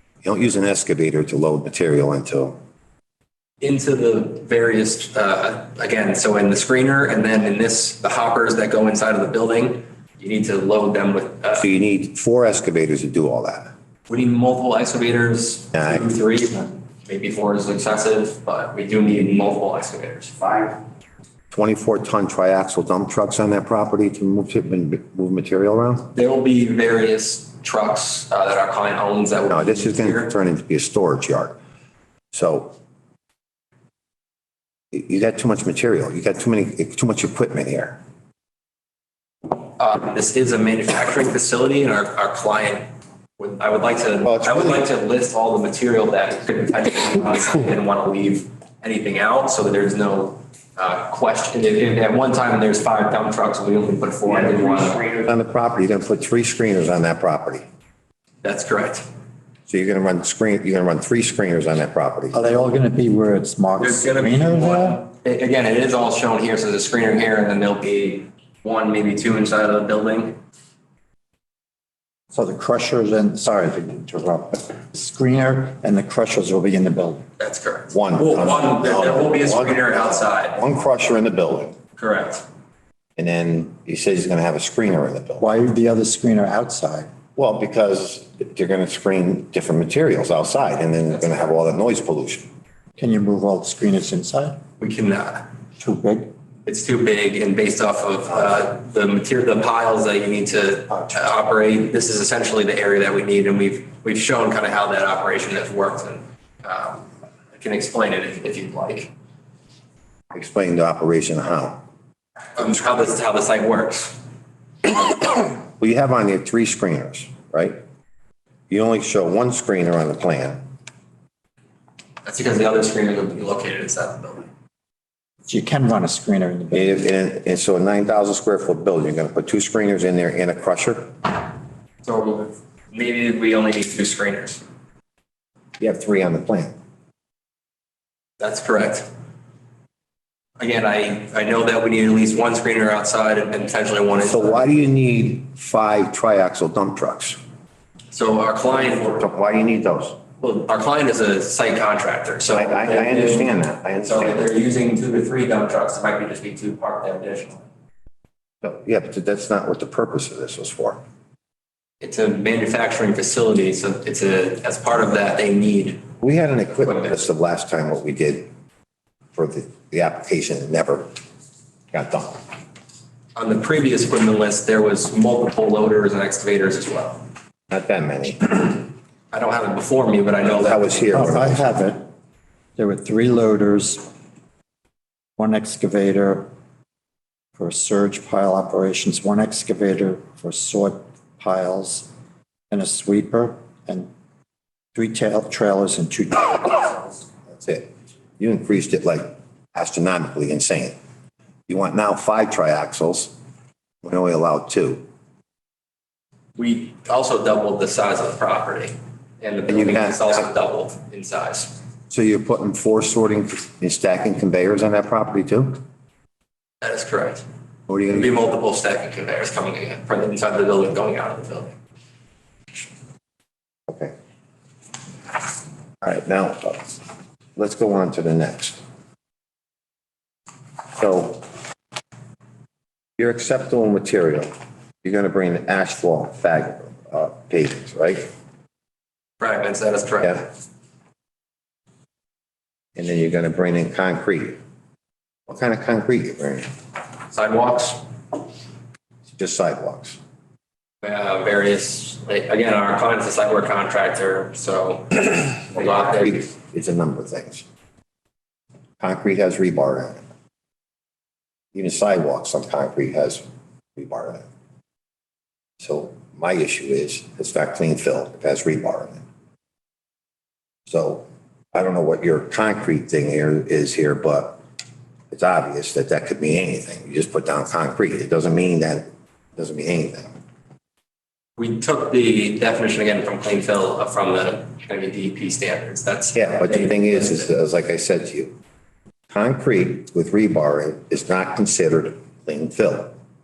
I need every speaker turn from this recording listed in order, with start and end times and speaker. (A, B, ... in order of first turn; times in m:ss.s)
0:00.2-0:02.6 A
0:03.6-0:11.6 B
0:11.6-0:13.7 A
0:14.1-0:20.8 B
0:15.7-0:16.1 A
0:21.5-0:26.1 A
0:26.1-0:30.3 B
0:29.5-0:31.6 A
0:32.3-0:32.7 A
0:34.9-0:38.0 A
0:39.5-0:42.9 B
0:43.4-0:55.1 B
0:44.2-0:44.8 A
0:54.3-0:57.6 A
0:58.4-0:59.0 B
0:59.7-1:02.7 A
1:02.3-1:05.0 C
1:03.8-1:10.4 B
1:12.3-1:17.2 C
1:17.4-1:20.6 B
1:17.9-1:21.8 A
1:22.0-1:22.4 B
1:23.2-1:25.5 A
1:25.4-1:27.1 C
1:27.4-1:32.4 A
1:33.0-1:34.6 C
1:34.8-1:35.5 B
1:35.8-1:36.3 C
1:36.6-1:49.1 B
1:38.3-1:38.6 A
1:50.3-1:51.8 A
1:52.6-1:54.2 B
1:55.8-1:57.8 A
1:58.7-2:00.6 A
2:02.2-2:04.5 B
2:05.4-2:07.0 C
2:06.7-2:11.2 A
2:12.0-2:14.6 B
2:15.8-2:16.7 A
2:18.4-2:19.1 B
2:20.6-2:24.7 B
2:24.2-2:27.4 A
2:28.1-2:29.3 B
2:28.7-2:30.2 A
2:30.4-2:37.6 B
2:32.5-2:34.5 A
2:38.6-2:41.0 A
2:42.0-2:46.0 B
2:46.2-2:48.5 A
2:49.3-2:51.1 A
2:51.9-2:52.4 A
2:53.4-2:57.2 B
2:57.7-2:58.6 A
2:59.3-3:01.0 B
3:00.5-3:01.8 A
3:01.1-3:02.0 C
3:02.8-3:04.1 C
3:05.4-3:06.5 C
3:07.6-3:12.1 C
3:12.7-3:14.1 C
3:14.9-3:17.0 C
3:17.5-3:21.0 A
3:21.7-3:23.3 A
3:24.0-3:25.0 A
3:26.6-3:31.7 B
3:29.7-3:30.5 A
3:32.1-3:35.8 A
3:36.8-3:37.4 B
3:37.9-3:38.4 A
3:38.1-3:41.7 B
3:43.9-3:44.1 A
3:46.0-3:46.9 A
3:47.6-3:48.8 A
3:50.9-3:51.4 A
3:53.2-3:54.5 A
3:55.0-3:58.3 A
3:59.4-4:00.5 B
4:03.0-4:04.6 A
4:05.5-4:06.7 A
4:07.3-4:08.0 B
4:09.3-4:10.2 A
4:11.0-4:16.5 B
4:15.7-4:17.6 A
4:19.0-4:20.2 A
4:21.7-4:23.4 A
4:24.0-4:24.5 A
4:25.8-4:29.2 A
4:30.9-4:34.6 A
4:35.3-4:40.3 A
4:41.6-4:47.5 B
4:46.3-4:48.5 A
4:49.3-4:53.1 A